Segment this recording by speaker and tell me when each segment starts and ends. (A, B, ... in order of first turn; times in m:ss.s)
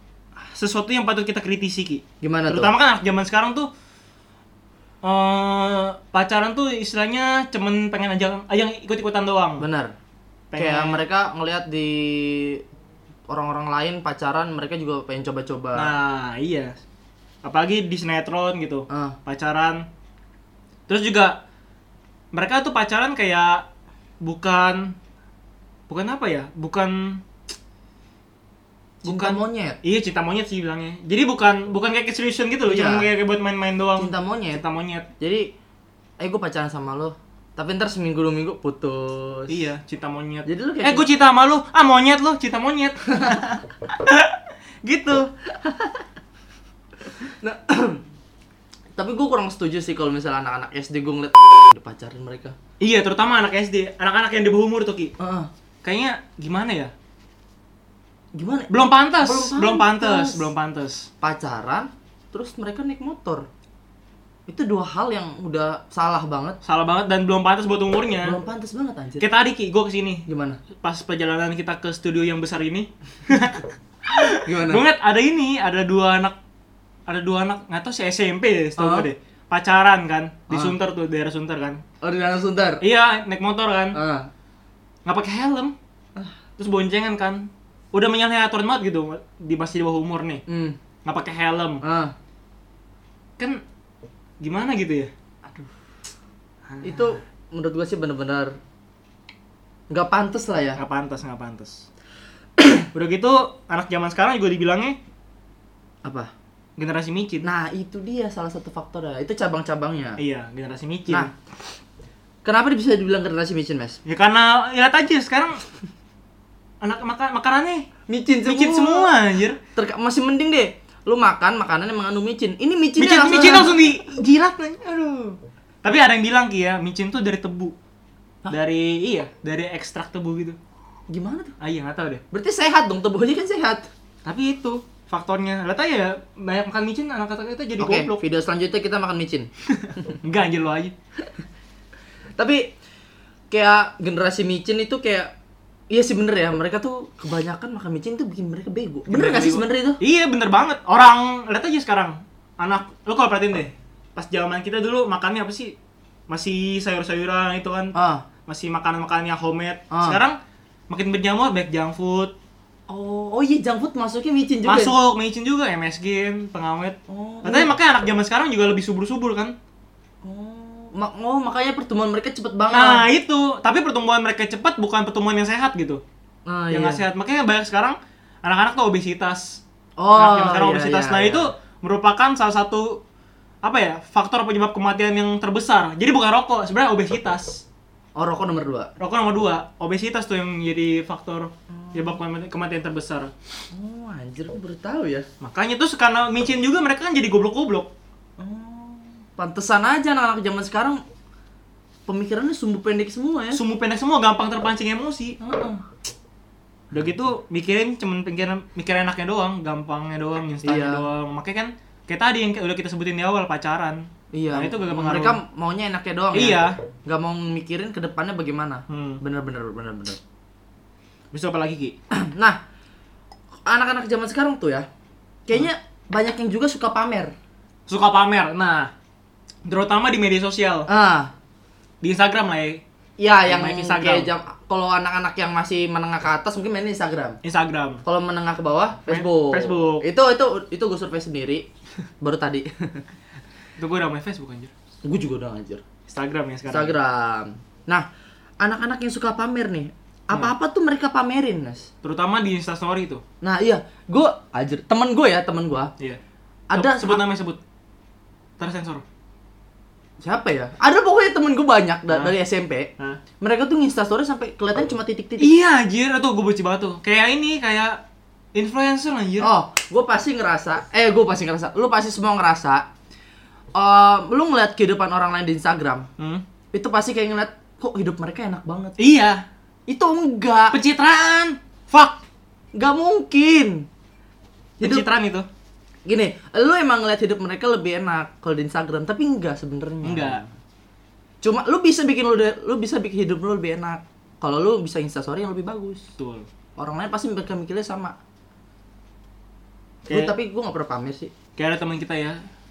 0:00.5-0:03.7 A
0:02.2-0:02.7 B
0:05.0-0:09.6 A
0:09.6-0:10.0 B
0:10.5-0:11.0 A
0:10.6-0:12.6 B
0:13.3-0:15.9 B
0:15.8-0:16.8 A
0:17.4-0:19.8 A
0:18.9-0:19.2 B
0:20.9-0:21.4 A
0:22.3-0:23.6 A
0:24.2-0:24.9 A
0:25.9-0:27.2 A
0:29.0-0:29.8 B
0:29.0-0:35.1 A
0:32.7-0:33.1 B
0:34.0-0:34.6 B
0:35.2-0:35.5 B
0:36.2-0:39.6 B
0:39.5-0:45.3 A
0:40.4-0:41.1 B
0:45.6-0:46.0 B
0:47.1-0:48.0 B
0:49.0-0:52.6 B
0:52.8-0:55.1 A
0:55.2-0:55.5 B
0:55.8-0:56.9 A
0:58.4-1:00.5 B
0:58.7-1:01.1 A
1:01.2-1:03.5 B
1:04.5-1:06.6 B
1:06.6-1:08.4 A
1:08.2-1:09.2 B
1:09.2-1:10.3 A
1:10.3-1:10.6 B
1:10.8-1:16.4 A
1:14.4-1:14.8 B
1:17.1-1:21.8 A
1:18.8-1:19.1 B
1:20.5-1:20.8 B
1:22.0-1:22.8 B
1:22.8-1:24.0 A
1:23.9-1:24.3 B
1:25.1-1:25.7 A
1:26.6-1:30.4 A
1:30.5-1:30.8 B
1:31.0-1:31.8 A
1:31.8-1:32.1 B
1:34.4-1:35.1 A
1:36.7-1:37.1 A
1:36.8-1:38.6 B
1:39.9-1:40.8 B
1:40.8-1:41.9 A
1:42.6-1:42.9 B
1:42.9-1:45.0 A
1:46.0-1:46.3 B
1:46.8-1:47.5 A
1:47.4-1:50.2 B
1:50.2-1:51.3 A
1:52.4-1:54.0 B
1:54.0-1:55.6 A
1:56.8-1:57.9 A
1:58.1-1:59.1 B
1:58.4-1:59.6 A
1:59.8-2:03.8 B
2:03.0-2:07.8 A
2:08.5-2:10.6 A
2:11.1-2:11.5 B
2:11.6-2:12.2 A
2:12.3-2:13.9 B
2:14.2-2:18.2 A
2:17.8-2:20.2 B
2:19.7-2:20.9 A
2:22.4-2:22.7 B
2:23.5-2:25.3 B
2:25.9-2:30.0 B
2:29.1-2:35.7 A
2:36.3-2:38.0 A
2:38.0-2:38.2 B
2:38.5-2:40.4 A
2:39.9-2:40.2 B
2:40.9-2:42.3 A
2:42.9-2:44.9 B
2:44.6-2:49.5 A
2:47.1-2:47.7 B
2:50.2-2:53.0 B
2:52.7-2:56.0 A
2:56.5-2:57.0 B
2:56.7-2:59.6 A
3:00.0-3:01.5 B
3:00.2-3:03.0 A
3:03.6-3:07.6 A
3:08.2-3:08.9 B
3:09.0-3:13.3 A
3:11.7-3:12.2 B
3:13.7-3:15.3 B
3:15.4-3:17.9 A
3:18.4-3:21.0 B
3:22.1-3:23.6 B
3:23.5-3:25.4 A
3:25.4-3:25.8 B
3:26.9-3:35.4 A
3:30.6-3:31.1 B
3:34.3-3:40.2 B
3:36.3-3:36.8 A
3:38.9-3:39.2 A
3:41.3-3:42.0 A
3:42.1-3:42.6 B
3:43.7-3:44.9 B
3:45.5-3:47.3 B
3:47.9-3:48.9 A
3:49.7-3:50.9 A
3:50.9-3:51.3 B
3:52.0-3:52.8 A
3:53.2-3:57.4 B
3:53.5-3:54.3 A
3:57.4-3:58.0 A
3:58.0-4:01.7 B
3:59.1-4:00.1 A
4:02.2-4:03.0 B
4:03.8-4:04.7 A
4:05.0-4:05.8 B
4:06.1-4:07.0 A
4:06.7-4:08.1 B
4:08.6-4:11.9 B
4:12.0-4:13.2 A
4:13.4-4:15.9 B
4:16.7-4:17.2 B
4:16.7-4:17.6 A
4:18.6-4:19.0 A
4:20.2-4:25.5 B
4:25.4-4:28.0 A
4:28.6-4:29.5 A
4:29.4-4:32.9 B
4:33.8-4:36.1 B
4:36.2-4:36.4 A
4:36.7-4:39.0 B
4:39.0-4:39.4 A
4:39.9-4:40.8 B
4:40.7-4:42.2 A
4:42.7-4:43.9 B
4:44.8-4:45.1 B
4:44.8-4:45.5 A
4:46.1-4:50.5 B
4:50.0-4:50.4 A
4:51.4-4:56.0 B
4:56.2-4:56.5 A
4:56.8-4:58.2 B
5:00.1-5:00.3 A
5:00.1-5:01.3 B
5:01.6-5:02.4 A